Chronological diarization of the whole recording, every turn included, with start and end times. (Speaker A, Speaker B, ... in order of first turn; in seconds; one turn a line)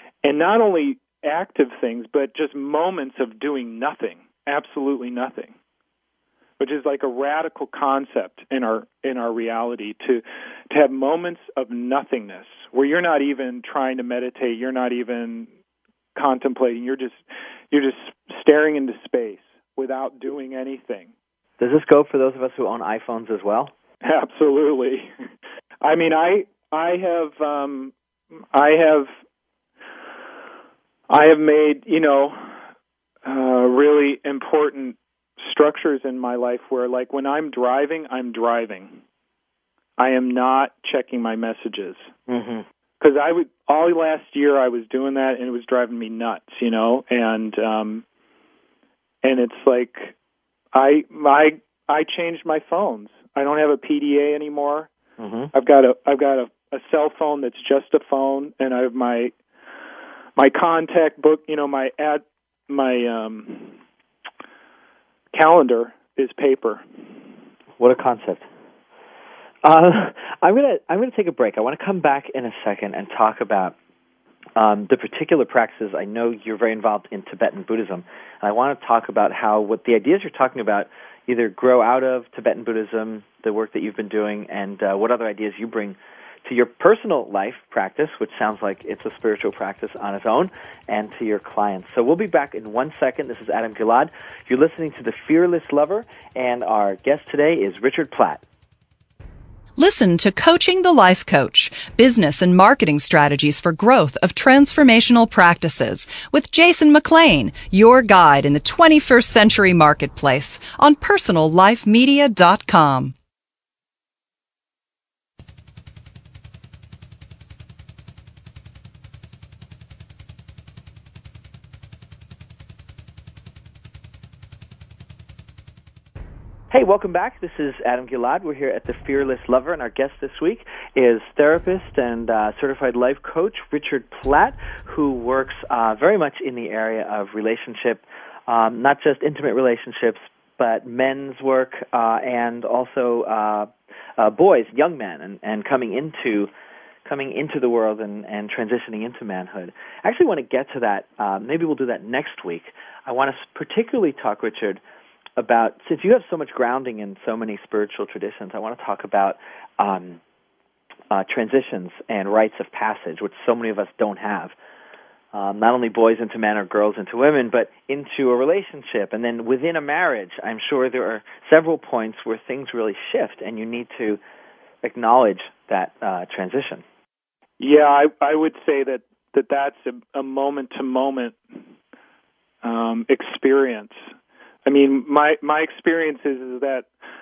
Speaker A: 0.2-5.5
Speaker A: 6.6-15.5
Speaker A: 16.1-21.1
Speaker B: 21.6-23.7
Speaker A: 24.0-25.1
Speaker A: 25.8-27.9
Speaker A: 28.5-29.1
Speaker A: 31.1-32.5
Speaker A: 33.2-39.0
Speaker A: 40.0-42.1
Speaker B: 42.3-42.6
Speaker A: 43.0-48.0
Speaker A: 49.2-50.1
Speaker A: 50.7-54.9
Speaker B: 55.2-55.5
Speaker A: 55.5-59.3
Speaker A: 60.4-63.8
Speaker A: 65.3-66.8
Speaker B: 67.8-68.5
Speaker B: 69.6-73.7
Speaker B: 74.5-98.4
Speaker C: 99.8-113.1
Speaker B: 126.7-146.5
Speaker B: 147.0-154.8
Speaker B: 155.4-160.2
Speaker B: 161.1-164.5
Speaker B: 165.3-174.2
Speaker B: 174.8-176.8
Speaker A: 177.6-181.4
Speaker A: 182.6-184.0
Speaker A: 184.7-186.9